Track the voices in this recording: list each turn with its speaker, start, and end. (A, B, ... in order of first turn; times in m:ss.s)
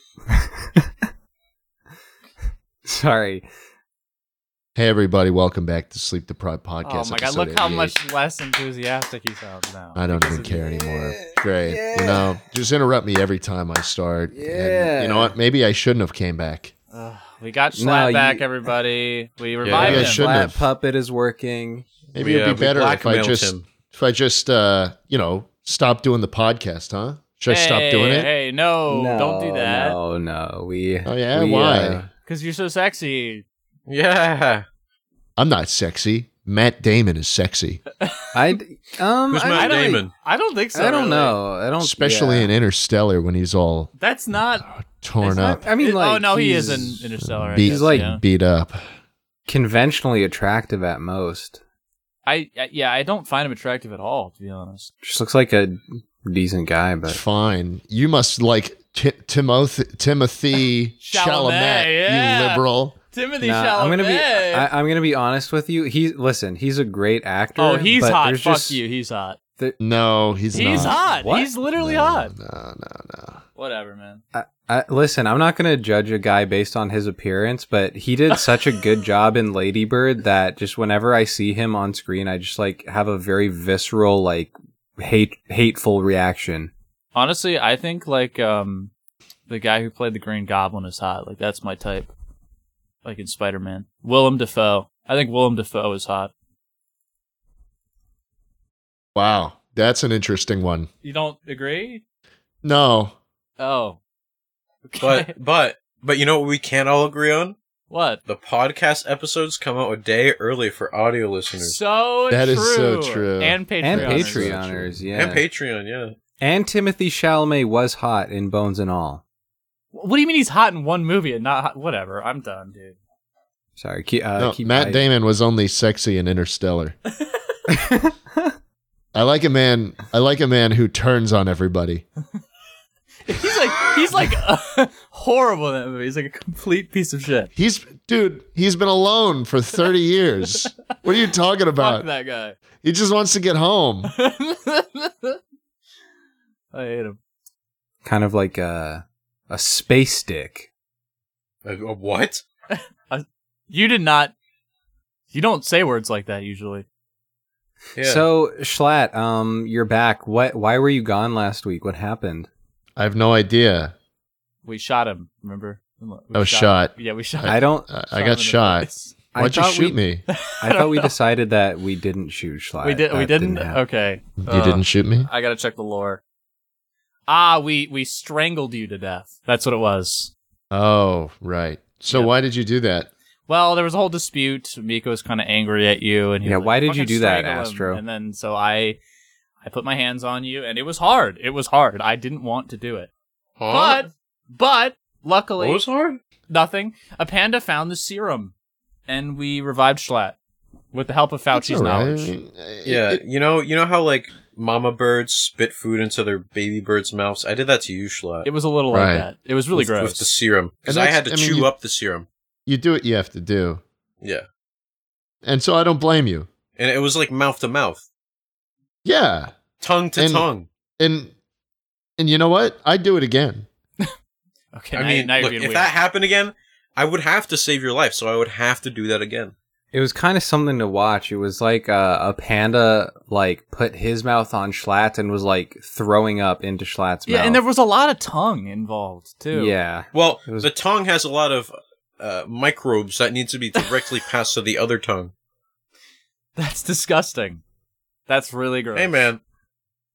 0:00.3-0:00.8 A
0:02.8-0:03.5 A
0:04.8-0:08.0 B
0:06.8-0:10.6 C
0:10.0-0:16.7 B
0:10.4-0:12.3 A
0:14.3-0:15.4 A
0:16.9-0:20.3 C
0:17.7-0:18.5 A
0:19.6-0:20.1 D
0:19.7-0:21.9 A
0:19.7-0:20.6 B
0:22.2-0:23.7 D
0:22.2-0:28.3 B
0:27.5-0:30.0 C
0:28.9-0:32.1 A
0:31.0-0:32.1 B
0:32.2-0:33.4 C
0:33.9-0:34.7 D
0:35.4-0:37.8 B
0:38.3-0:40.1 A
0:39.3-0:40.1 D
0:39.5-0:41.4 C
0:40.7-0:42.5 A
0:41.8-0:43.9 B
0:44.0-0:44.7 C
0:44.6-0:45.6 B
0:45.2-0:48.2 A
0:45.7-0:48.2 C
0:47.2-0:48.8 B
0:49.5-0:51.6 A
0:52.3-0:54.9 C
0:55.0-0:57.2 A
0:57.1-1:03.0 B
1:01.0-1:04.7 C
1:03.4-1:08.8 A
1:07.6-1:09.4 C
1:09.8-1:11.0 B
1:10.5-1:12.3 C
1:10.6-1:11.5 A
1:11.7-1:13.4 B
1:13.6-1:14.2 C
1:14.3-1:26.7 A
1:18.3-1:18.6 C
1:27.2-1:28.9 C
1:29.5-1:32.1 C
1:33.0-1:36.3 C
1:39.2-1:40.9 B
1:41.0-1:42.0 C
1:42.6-1:43.2 B
1:43.6-1:44.0 C
1:44.8-1:45.3 C
1:45.0-1:47.6 D
1:47.9-1:48.2 C
1:48.3-1:51.8 D
1:51.6-1:54.5 C
1:52.3-1:55.0 B
1:53.8-1:55.4 A
1:55.2-1:56.2 D
1:56.4-1:59.2 A
1:59.9-2:03.0 C
2:03.8-2:05.1 A
2:04.4-2:07.0 B
2:07.7-2:08.1 A
2:09.2-2:12.0 B
2:13.3-2:17.5 C
2:17.6-2:22.1 B
2:21.8-2:22.6 C
2:22.8-2:24.1 B
2:24.1-2:25.4 C
2:26.7-2:27.2 C
2:28.0-2:30.7 A
2:31.6-2:32.4 D
2:32.7-2:34.3 C
2:35.3-2:36.8 C
2:38.0-2:38.3 D
2:38.0-2:42.5 A
2:43.0-2:43.9 B
2:44.6-2:49.2 C
2:46.3-2:50.2 B
2:47.5-2:47.9 A
2:49.3-2:50.0 A
2:50.3-2:51.1 C
2:50.6-2:53.8 A
2:52.8-2:56.2 C
2:54.4-2:55.3 B
2:57.3-3:00.3 C
3:00.7-3:03.1 B
3:03.5-3:09.0 C
3:06.4-3:08.0 A
3:09.6-3:13.1 C
3:13.6-3:14.1 D
3:13.7-3:15.8 C
3:15.6-3:16.2 D
3:16.5-3:18.5 C
3:19.1-3:20.4 C
3:20.9-3:22.4 C
3:21.5-3:23.2 B
3:22.8-3:28.5 D
3:28.4-3:30.2 C
3:28.9-3:29.3 B
3:29.8-3:32.3 D
3:30.9-3:31.7 B
3:32.7-3:33.8 B
3:35.4-3:36.5 B
3:36.8-3:38.0 D
3:39.0-3:39.6 B
3:39.8-3:40.7 D
3:40.2-3:40.5 B
3:41.0-3:41.3 B
3:42.2-3:43.7 B
3:44.7-3:45.9 C
3:44.9-3:49.5 D
3:49.9-3:57.6 A
3:57.3-3:59.8 C
3:59.5-4:00.7 A
4:00.1-4:05.3 D
4:06.6-4:07.6 C
4:08.3-4:09.3 C
4:09.0-4:09.4 D